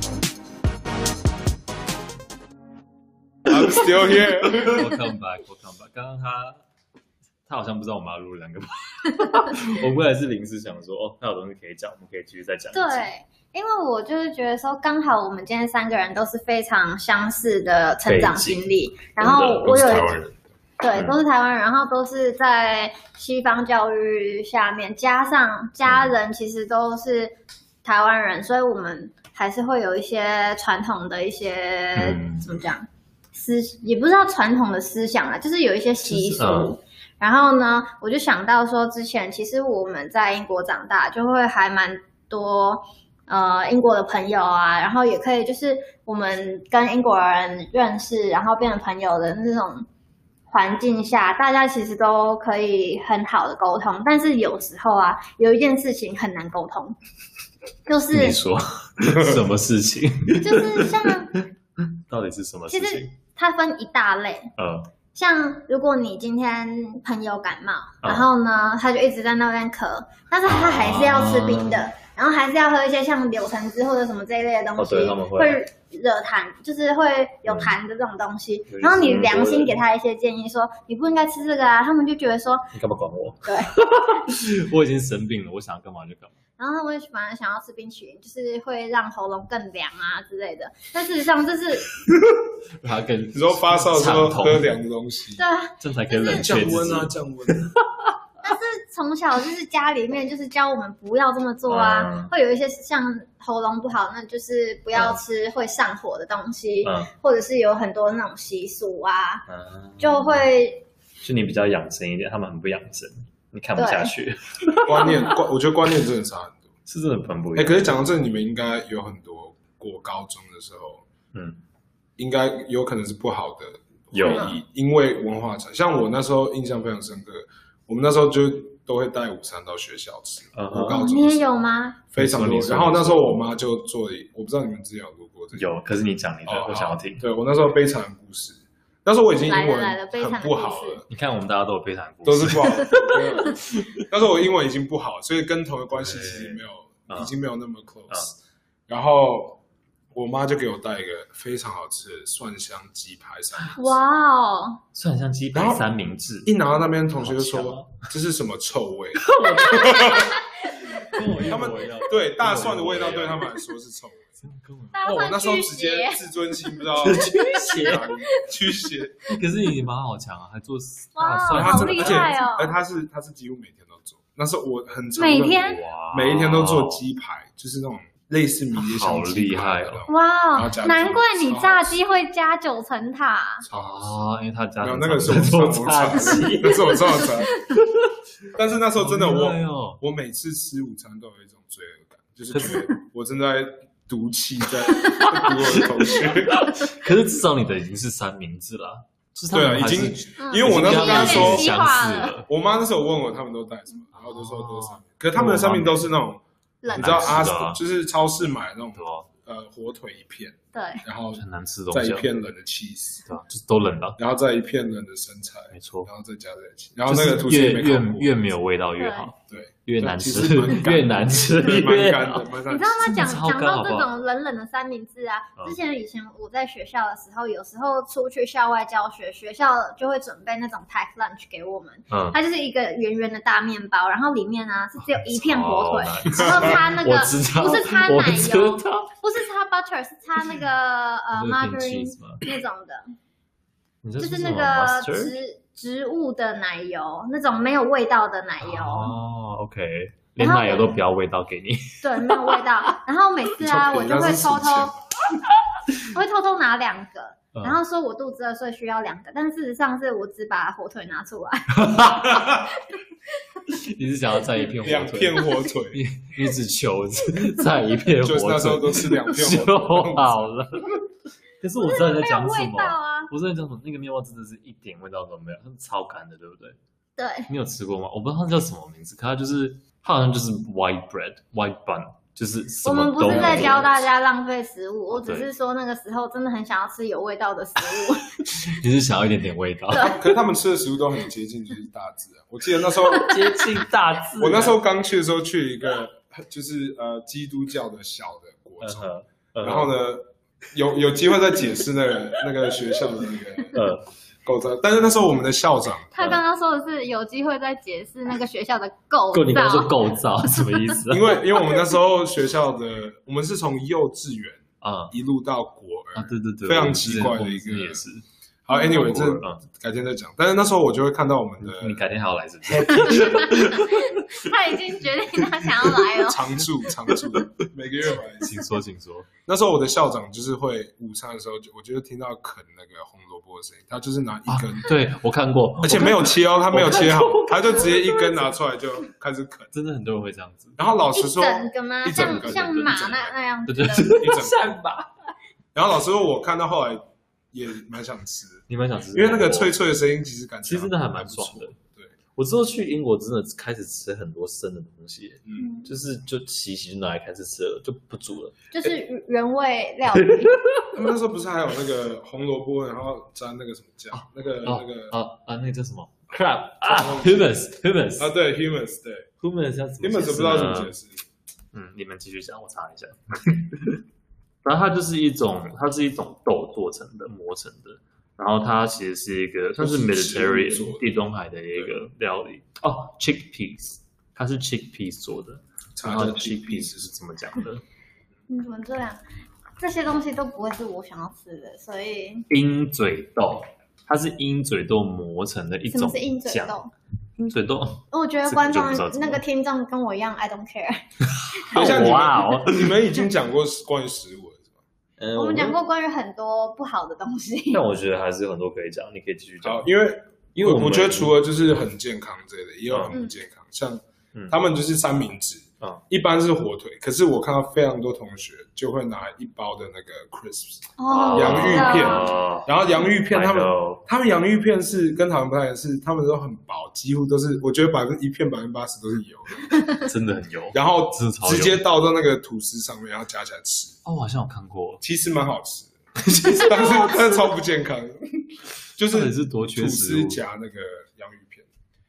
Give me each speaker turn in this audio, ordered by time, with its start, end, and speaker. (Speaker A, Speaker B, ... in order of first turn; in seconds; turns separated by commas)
Speaker A: 3.5-4.9, Speaker B: 4.5-6.6, Speaker B: 7.5-13.1, Speaker C: 12.7-20.2, Speaker B: 18.1-20.3, Speaker C: 20.8-49.9, Speaker B: 25.8-26.1, Speaker B: 31.9-32.5, Speaker B: 36.0-36.8, Speaker C: 50.5-57.0, Speaker C: 57.9-58.4, Speaker B: 58.1-63.1, Speaker A: 59.0-59.4, Speaker C: 60.4-61.3, Speaker C: 62.7-64.5, Speaker B: 64.6-64.9, Speaker C: 65.1-82.7, Speaker B: 70.5-71.8, Speaker B: 74.8-75.6, Speaker B: 77.5-77.7, Speaker B: 78.7-79.8, Speaker B: 82.7-86.3, Speaker C: 83.4-83.7, Speaker C: 86.6-91.9, Speaker B: 92.8-94.7, Speaker A: 93.3-95.4, Speaker C: 95.3-96.6, Speaker B: 95.8-98.1, Speaker A: 96.3-97.7, Speaker C: 98.4-109.5, Speaker B: 101.7-102.3, Speaker B: 104.9-105.2, Speaker B: 106.8-107.1, Speaker B: 109.5-110.5, Speaker C: 110.0-110.8, Speaker B: 111.2-115.4, Speaker C: 113.8-114.1, Speaker A: 114.8-116.6, Speaker B: 116.9-118.0, Speaker A: 117.5-121.0, Speaker B: 121.3-121.6, Speaker A: 122.2-131.5, Speaker B: 124.1-124.5, Speaker C: 124.2-124.5, Speaker B: 130.5-131.1, Speaker C: 130.8-132.0, Speaker A: 132.1-135.7, Speaker B: 132.2-133.4, Speaker B: 135.5-137.2, Speaker A: 136.4-141.1, Speaker C: 139.4-141.0, Speaker B: 141.1-144.0, Speaker A: 142.2-148.3, Speaker C: 142.8-143.2, Speaker B: 145.9-147.3, Speaker A: 148.9-149.6, Speaker A: 150.1-153.8, Speaker C: 153.8-154.8, Speaker B: 154.9-156.5, Speaker A: 155.5-155.8, Speaker A: 156.4-160.4, Speaker B: 157.2-158.0, Speaker B: 159.2-163.5, Speaker C: 159.4-161.2, Speaker A: 161.4-164.3, Speaker B: 164.4-165.0, Speaker C: 164.9-166.2, Speaker A: 165.0-169.2, Speaker C: 166.8-168.1, Speaker B: 167.0-168.1, Speaker B: 169.3-172.3, Speaker C: 171.2-172.7, Speaker A: 171.5-182.0, Speaker C: 175.2-175.8, Speaker B: 175.6-177.0, Speaker B: 178.7-180.1, Speaker C: 180.1-183.7, Speaker A: 183.6-184.2, Speaker B: 183.7-188.1, Speaker A: 184.8-187.5, Speaker C: 186.9-187.2, Speaker A: 188.5-196.7, Speaker B: 188.9-190.0, Speaker B: 192.5-192.9, Speaker C: 195.0-195.8, Speaker B: 195.1-202.5, Speaker C: 196.6-196.9, Speaker A: 199.5-201.7, Speaker C: 200.4-202.3, Speaker A: 202.5-213.2, Speaker B: 204.1-206.0, Speaker C: 206.8-207.4, Speaker B: 206.9-207.8, Speaker B: 208.9-209.3, Speaker C: 210.7-211.0, Speaker B: 211.3-212.3, Speaker B: 213.3-214.2, Speaker A: 214.2-218.4, Speaker B: 215.7-216.1, Speaker B: 217.1-224.1, Speaker C: 219.0-219.3, Speaker A: 219.5-223.2, Speaker C: 222.7-243.0, Speaker B: 232.1-232.4, Speaker B: 235.1-239.1, Speaker A: 236.4-236.8, Speaker B: 241.3-242.4, Speaker B: 244.0-245.3, Speaker C: 244.2-249.1, Speaker B: 248.6-253.0, Speaker C: 250.4-251.0, Speaker C: 252.0-254.9, Speaker A: 253.6-255.0, Speaker C: 256.0-261.9, Speaker B: 257.5-257.8, Speaker B: 261.7-262.7, Speaker A: 262.3-262.6, Speaker B: 263.7-271.0, Speaker A: 264.7-266.0, Speaker A: 268.1-270.9, Speaker B: 271.6-276.8, Speaker C: 271.8-273.3, Speaker C: 277.2-277.5, Speaker B: 277.5-284.0, Speaker C: 282.8-288.3, Speaker A: 283.2-283.8, Speaker B: 285.1-285.5, Speaker B: 288.4-290.1, Speaker C: 289.9-290.3, Speaker A: 289.9-293.6, Speaker B: 293.1-294.8, Speaker A: 294.4-303.8, Speaker B: 298.8-299.9, Speaker B: 303.7-304.0, Speaker A: 304.4-306.1, Speaker C: 306.1-310.1, Speaker B: 309.3-311.4, Speaker A: 311.1-318.0, Speaker B: 314.8-315.1, Speaker B: 316.1-318.2, Speaker A: 318.6-322.0, Speaker C: 318.7-319.0, Speaker B: 318.7-319.6, Speaker B: 321.6-324.3, Speaker A: 322.6-323.7, Speaker C: 323.1-326.6, Speaker A: 326.2-328.7, Speaker B: 327.1-327.6, Speaker B: 328.4-329.3, Speaker A: 329.4-334.9, Speaker B: 334.5-338.3, Speaker A: 335.8-339.7, Speaker B: 339.7-340.8, Speaker A: 340.8-342.9, Speaker C: 341.1-344.1, Speaker B: 342.1-345.1, Speaker A: 344.0-344.7, Speaker A: 345.7-352.1, Speaker B: 348.7-349.8, Speaker B: 350.6-351.8, Speaker B: 352.3-358.7, Speaker A: 355.4-355.7, Speaker C: 355.6-355.9, Speaker C: 358.7-360.6, Speaker B: 360.1-361.1, Speaker A: 360.9-365.1, Speaker B: 364.1-368.3, Speaker A: 366.8-367.6, Speaker A: 368.2-369.3, Speaker B: 369.4-370.9, Speaker A: 370.0-371.2, Speaker B: 371.7-374.0, Speaker B: 374.6-387.8, Speaker A: 379.8-381.1, Speaker A: 385.9-387.1, Speaker C: 388.5-389.2, Speaker C: 389.8-392.5, Speaker B: 392.5-396.8, Speaker C: 395.9-396.9, Speaker B: 397.4-399.4, Speaker C: 398.1-401.0, Speaker B: 401.5-403.0, Speaker A: 401.7-404.7, Speaker B: 405.2-405.8, Speaker C: 405.3-407.8, Speaker B: 407.7-409.9, Speaker A: 409.6-429.7, Speaker B: 410.5-411.3, Speaker C: 421.0-422.3, Speaker B: 421.1-424.0, Speaker B: 430.0-431.8, Speaker A: 430.7-434.0, Speaker B: 434.0-435.0, Speaker A: 435.0-435.9, Speaker B: 436.2-437.5, Speaker A: 436.5-441.7, Speaker B: 439.1-440.4